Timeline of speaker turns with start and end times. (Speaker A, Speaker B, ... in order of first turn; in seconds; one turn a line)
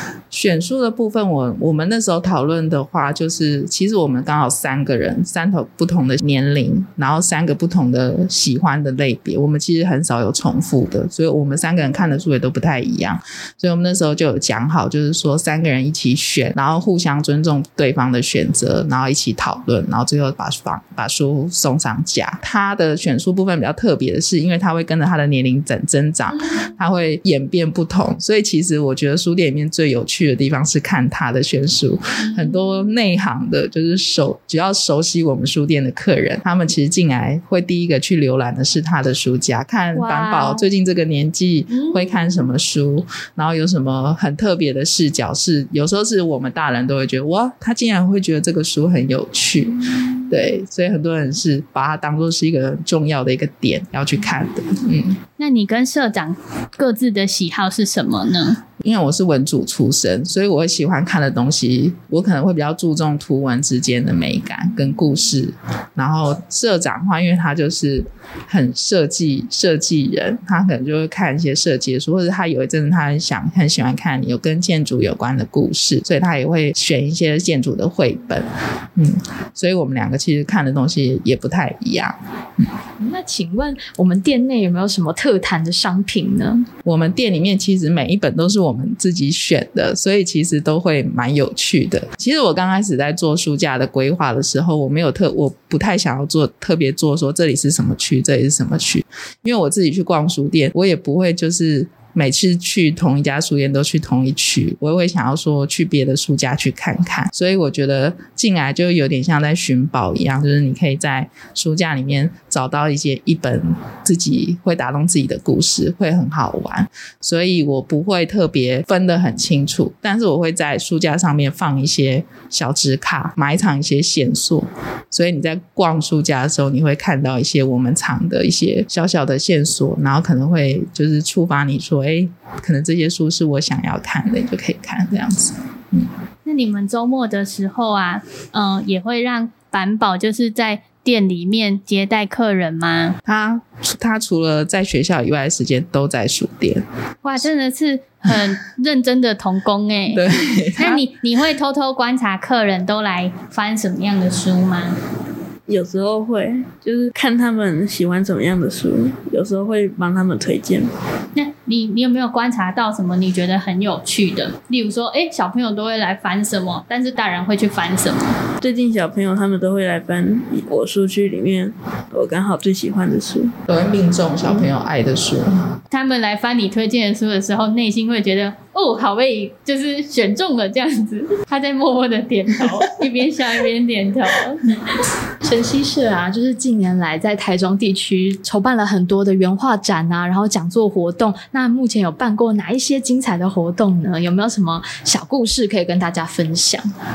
Speaker A: 0.3-55.2
Speaker B: 32.2-32.8
Speaker B: 39.9-40.7
Speaker B: 41.7-42.1
Speaker B: 55.4-58.6
Speaker A: 58.8-82.7
Speaker C: 83.0-86.7
Speaker A: 86.8-136.1
Speaker B: 136.4-143.2
Speaker A: 143.2-146.8
Speaker B: 147.2-150.2
Speaker A: 150.1-151.1
Speaker B: 150.8-154.9
Speaker D: 155.7-160.9
Speaker B: 161.3-168.4
Speaker D: 168.6-173.6
Speaker A: 173.7-175.8
Speaker B: 175.9-184.7
Speaker C: 185.4-196.9